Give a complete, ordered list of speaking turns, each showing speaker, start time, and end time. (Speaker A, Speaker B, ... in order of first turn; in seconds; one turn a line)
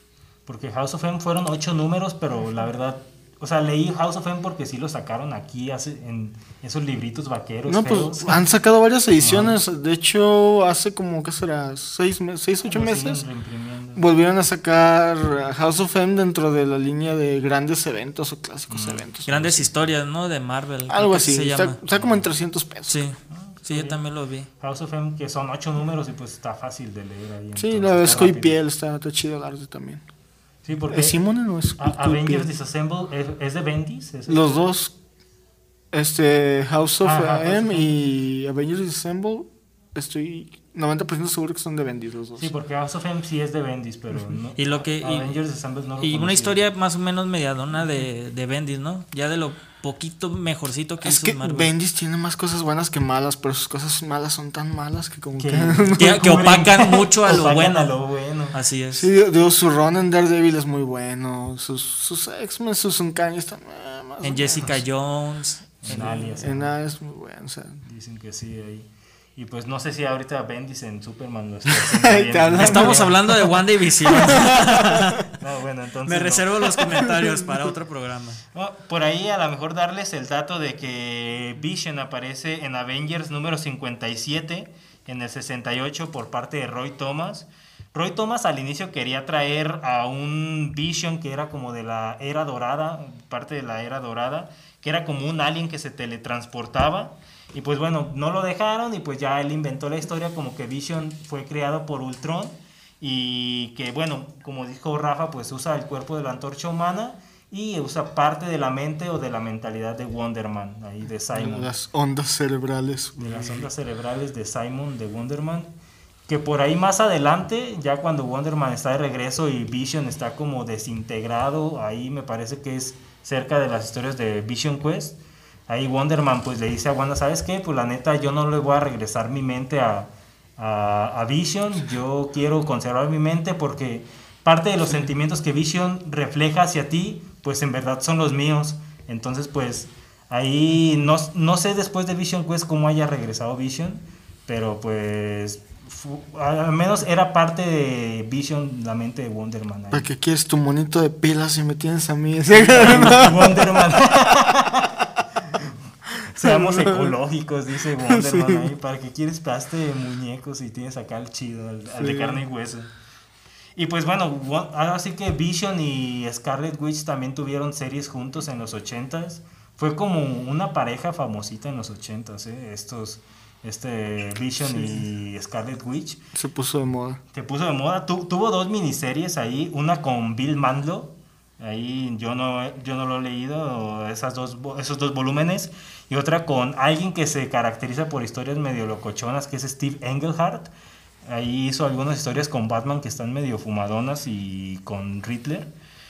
Speaker A: 0.5-8.4
Speaker B: 7.7-13.2
Speaker A: 9.2-9.6
Speaker A: 12.7-14.0
Speaker B: 13.9-19.5
Speaker A: 18.7-19.9
Speaker C: 19.3-21.8
Speaker B: 20.9-23.0
Speaker A: 21.9-22.3
Speaker C: 22.9-24.5
Speaker A: 23.3-24.0
Speaker A: 24.6-28.6
Speaker B: 27.6-30.0
Speaker A: 30.6-31.2
Speaker B: 30.9-32.5
Speaker A: 31.8-34.7
Speaker B: 34.3-35.0
Speaker B: 35.9-42.5
Speaker A: 37.0-37.9
Speaker A: 42.4-46.6
Speaker C: 44.5-45.3
Speaker C: 46.0-51.7
Speaker B: 51.0-56.2
Speaker A: 55.4-58.6
Speaker C: 56.0-57.9
Speaker C: 58.5-59.1
Speaker B: 58.9-64.8
Speaker C: 64.2-66.0
Speaker A: 65.8-66.7
Speaker B: 65.9-67.8
Speaker A: 67.8-73.2
Speaker B: 71.7-73.2
Speaker C: 72.6-75.3
Speaker B: 74.1-74.8
Speaker A: 75.2-77.1
Speaker C: 76.0-78.4
Speaker A: 78.5-111.7
Speaker B: 111.3-113.7
Speaker A: 113.2-115.7
Speaker A: 116.3-150.1
Speaker B: 149.9-153.8
Speaker A: 152.5-162.9
Speaker B: 156.4-157.1
Speaker B: 158.0-158.7
Speaker B: 162.0-162.4
Speaker A: 163.8-176.2
Speaker B: 174.6-175.0
Speaker B: 176.3-177.2
Speaker A: 177.3-190.7
Speaker A: 191.3-195.7